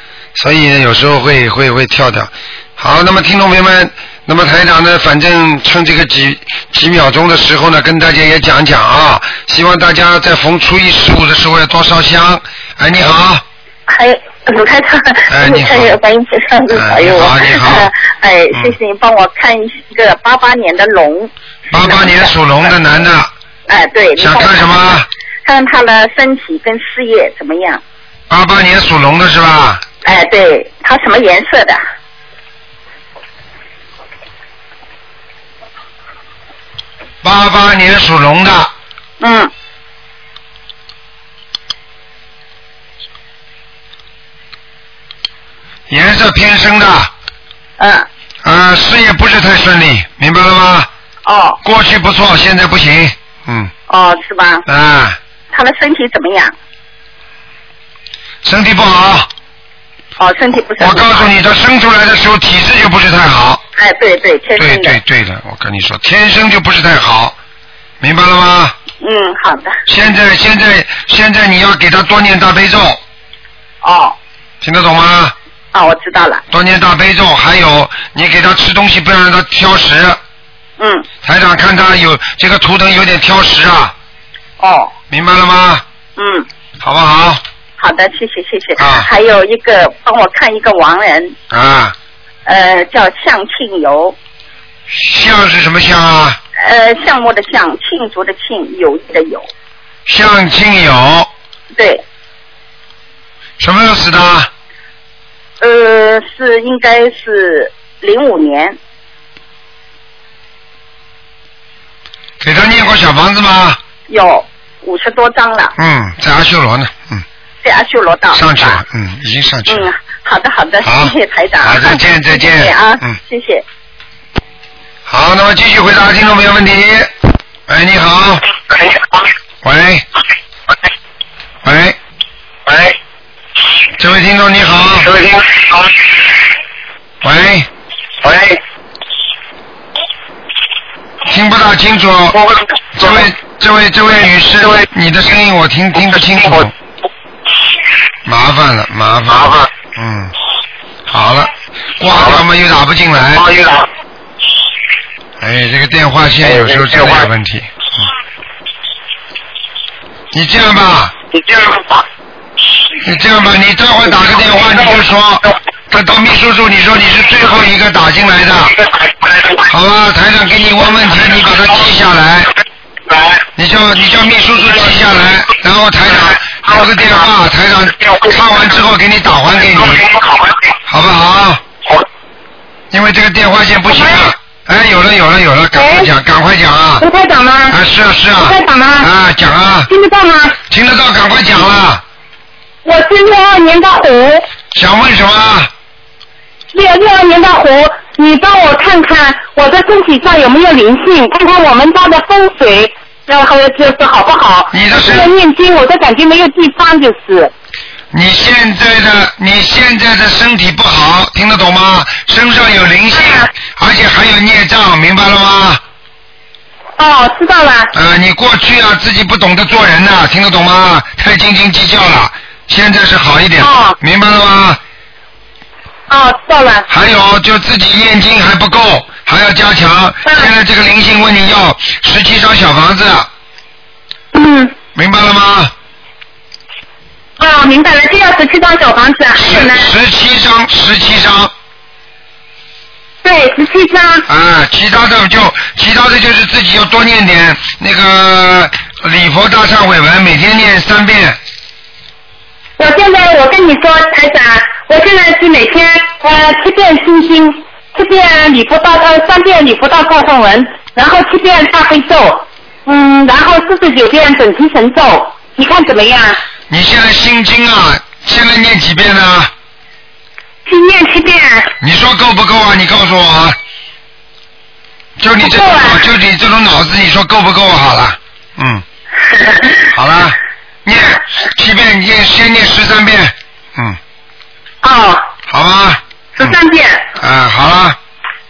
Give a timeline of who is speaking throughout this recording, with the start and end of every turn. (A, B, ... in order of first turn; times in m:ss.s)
0:00.3-0:13.4 A
0:13.9-0:22.3 B
0:15.3-0:16.0 A
0:16.7-0:17.9 A
0:21.7-0:23.3 A
0:23.7-0:27.8 B
0:24.2-0:25.1 A
0:28.3-0:29.8 A
0:30.0-0:31.8 B
0:37.2-0:38.7 A
0:39.2-0:39.5 B
0:45.9-0:47.1 A
0:47.8-0:48.1 B
0:48.4-0:50.9 A
0:51.3-0:51.6 B
0:51.6-0:53.7 A
0:53.9-0:54.6 B
0:54.7-0:55.2 A
0:55.5-0:56.5 B
0:58.4-0:59.3 A
1:00.2-1:01.3 B
1:00.8-1:03.6 A
1:03.8-1:05.0 B
1:04.6-1:07.4 A
1:08.0-1:08.7 A
1:09.0-1:09.8 B
1:09.9-1:13.0 A
1:13.8-1:14.2 B
1:14.6-1:15.3 A
1:15.7-1:16.4 B
1:16.5-1:20.2 A
1:20.8-1:21.1 B
1:21.2-1:23.9 A
1:24.6-1:24.9 B
1:25.1-1:25.8 A
1:26.2-1:26.5 B
1:26.8-1:27.4 A
1:27.8-1:31.4 B
1:28.8-1:29.1 A
1:31.5-1:32.0 A
1:32.4-1:34.2 B
1:34.9-1:36.4 A
1:36.6-1:39.5 B
1:40.0-1:41.3 A
1:41.7-1:42.0 B
1:43.6-1:44.5 A
1:45.6-1:48.8 B
1:52.4-1:53.8 A
1:54.1-1:55.7 B
1:55.8-1:57.2 A
1:57.6-1:58.8 B
1:58.3-1:59.9 A
1:59.7-2:03.6 B
2:00.8-2:03.2 A
2:05.1-2:07.1 A
2:07.7-2:08.4 A
2:09.6-2:10.0 A
2:11.6-2:12.0 A
2:14.0-2:15.3 A
2:17.2-2:17.7 A
2:21.2-2:26.7 A
2:28.3-2:30.3 A
2:31.0-2:33.8 A
2:35.4-2:38.1 A
2:40.3-2:41.1 A
2:43.0-2:48.8 A
2:49.5-2:52.5 A
2:53.6-3:01.6 A
3:02.9-3:07.0 A
3:03.9-3:04.3 C
3:05.7-3:06.1 C
3:07.0-3:07.8 C
3:07.7-3:09.9 A
3:08.4-3:09.1 C
3:09.9-3:10.6 C
3:10.7-3:12.0 A
3:12.8-3:14.4 C
3:14.7-3:15.7 A
3:16.7-3:27.5 C
3:24.7-3:25.3 A
3:28.1-3:35.8 A
3:33.1-3:33.5 C
3:37.0-3:37.9 C
3:37.9-3:44.8 A
3:43.6-3:44.0 C
3:46.1-3:46.9 C
3:46.9-3:53.3 A
3:50.2-3:50.5 C
3:54.3-3:54.7 C
3:55.0-3:55.7 A
3:57.4-3:59.9 C
3:59.4-4:01.5 A
4:03.2-4:04.2 C
4:04.3-4:11.4 A
4:12.8-4:26.4 C
4:26.7-4:29.5 A
4:30.7-4:31.7 C
4:31.8-4:33.6 A
4:35.2-4:38.8 A
4:35.4-4:36.0 C
4:39.9-4:44.0 A
4:44.8-4:45.3 C
4:45.5-4:46.6 A
4:46.4-4:47.0 C
4:47.2-4:48.0 A